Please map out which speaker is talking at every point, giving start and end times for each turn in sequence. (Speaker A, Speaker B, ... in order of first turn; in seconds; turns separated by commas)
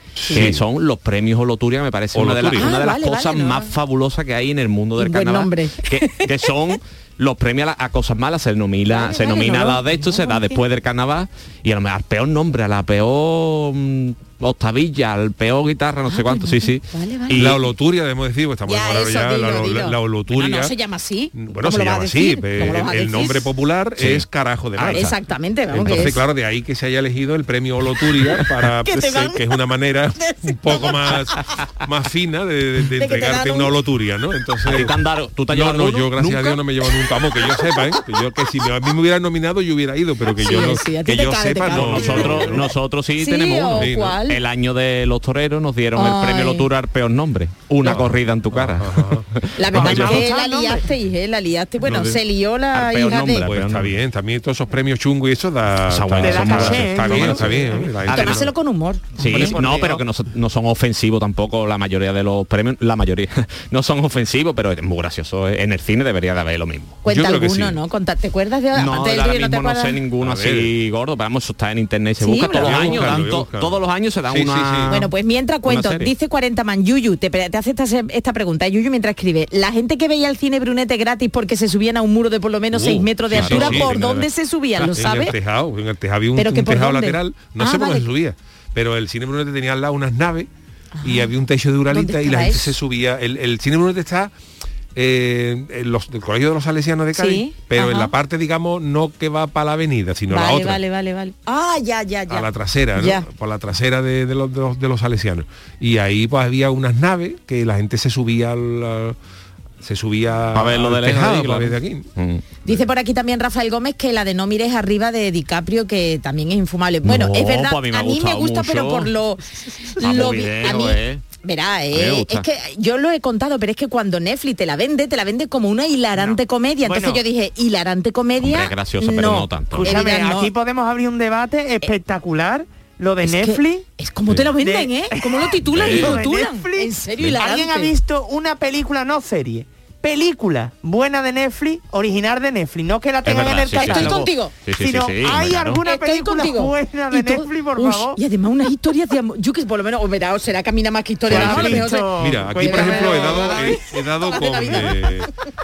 Speaker A: 0.2-0.7, Speaker B: 0.3-17.6, Speaker A: 2.1-2.7, Speaker C: 2.5-3.7, Speaker C: 5.0-6.3, Speaker C: 8.9-10.6, Speaker C: 16.1-17.6, Speaker A: 17.4-20.7, Speaker C: 18.7-23.5, Speaker A: 21.3-25.2, Speaker B: 24.0-24.2, Speaker B: 24.8-25.1, Speaker C: 24.9-26.2, Speaker A: 25.7-42.6, Speaker C: 28.8-29.4, Speaker C: 30.2-31.4, Speaker C: 33.0-33.7, Speaker B: 34.7-36.6, Speaker C: 40.4-42.6, Speaker B: 41.7-50.2, Speaker C: 43.2-44.4, Speaker A: 43.7-44.2, Speaker C: 46.0-46.7, Speaker A: 47.8-50.2, Speaker C: 49.5-53.5, Speaker D: 49.7-50.9, Speaker A: 51.8-52.2, Speaker B: 52.7-53.9, Speaker A: 53.4-58.5, Speaker B: 55.9-58.4, Speaker D: 56.2-57.9, Speaker C: 58.1-59.9, Speaker B: 59.2-67.0, Speaker A: 59.2-60.0, Speaker C: 67.0-70.0, Speaker A: 67.1-67.8, Speaker B: 68.7-75.1, Speaker A: 70.2-70.7, Speaker C: 72.2-73.2, Speaker A: 72.6-75.0, Speaker C: 74.9-85.3, Speaker B: 75.7-76.1, Speaker A: 82.7-83.9, Speaker B: 83.3-84.3, Speaker A: 84.9-90.5, Speaker C: 86.4-88.1, Speaker C: 91.0-91.3, Speaker A: 91.0-94.3, Speaker C: 91.9-92.8, Speaker A: 95.0-100.8, Speaker C: 97.1-98.1, Speaker C: 100.3-103.3, Speaker A: 102.3-109.2, Speaker A: 109.8-112.1, Speaker B: 110.5-112.5, Speaker C: 112.6-119.4, Speaker B: 117.0-119.1, Speaker C: 120.0-130.5, Speaker B: 120.0-121.2, Speaker B: 121.9-122.5, Speaker D: 126.9-127.2, Speaker B: 128.4-129.9, Speaker D: 129.7-133.9, Speaker C: 133.2-137.9, Speaker D: 134.6-148.2, Speaker B: 135.7-136.2, Speaker B: 143.2-145.8, Speaker C: 143.7-144.5, Speaker C: 145.9-155.2, Speaker D: 151.3-153.7, Speaker B: 151.3-151.9, Speaker A: 152.2-155.3